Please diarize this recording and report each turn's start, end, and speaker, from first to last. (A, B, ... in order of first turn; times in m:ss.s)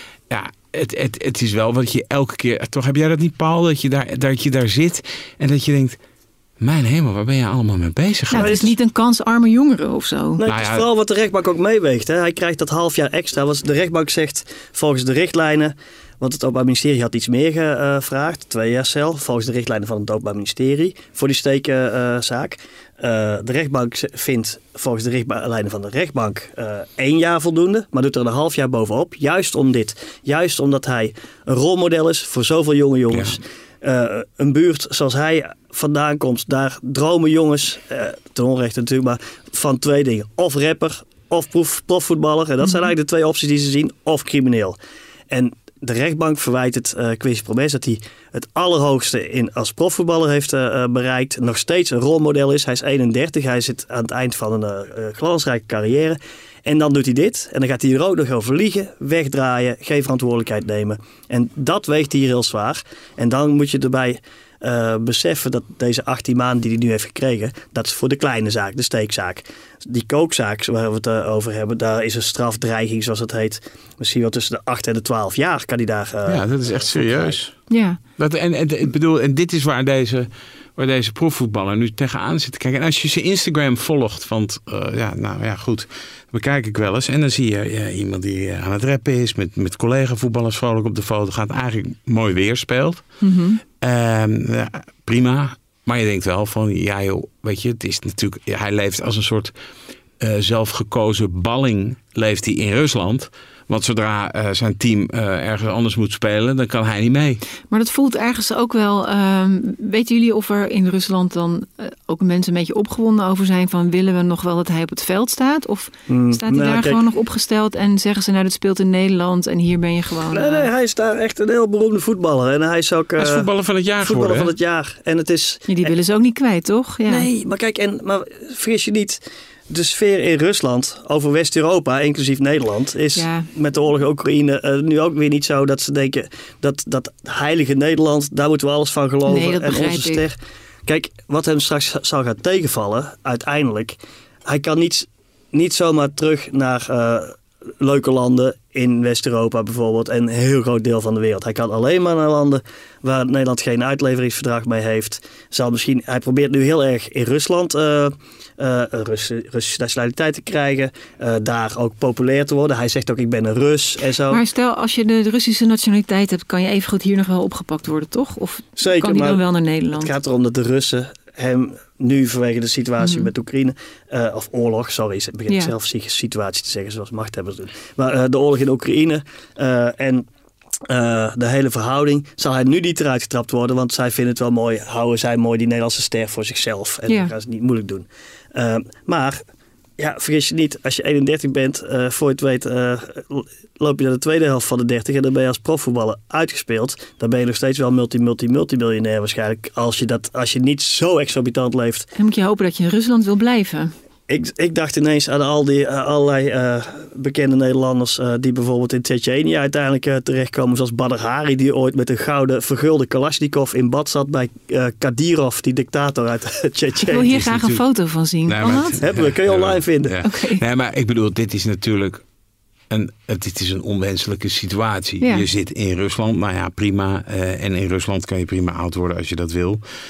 0:00.3-0:06.0 A
0:06.6-0:08.7 A
0:08.3-0:10.4 B
0:08.3-0:08.7 C
0:10.4-0:44.8 C
0:10.5-0:10.8 A
0:33.1-0:33.4 A
0:42.6-0:42.9 B
0:45.3-1:17.4 C
1:16.2-1:17.6 A
1:17.7-1:18.0 B
1:18.2-1:33.1 A
1:33.2-1:33.6 B
1:33.8-1:39.5 A
1:40.2-1:47.4 A
1:47.7-2:00.7 B
1:56.1-1:57.0 C
2:00.3-2:03.5 C
2:03.2-2:04.5 A
2:04.0-2:05.9 C
2:05.7-2:07.3 B
2:07.1-2:44.4 C
2:13.2-2:13.5 B
2:19.3-2:20.2 B
2:44.3-2:50.1 B
2:48.8-2:49.4 C
2:49.9-3:00.3 C
2:53.0-2:53.3 B
3:00.8-3:09.4 C
3:07.1-3:07.3 B
3:10.0-3:22.1 C
3:22.2-3:23.9 B
3:24.3-3:37.3 C
3:37.1-3:39.0 B
3:37.3-3:37.8 A
3:38.4-3:42.2 A
3:39.0-3:40.2 C
3:40.2-3:40.6 B
3:42.9-3:49.8 A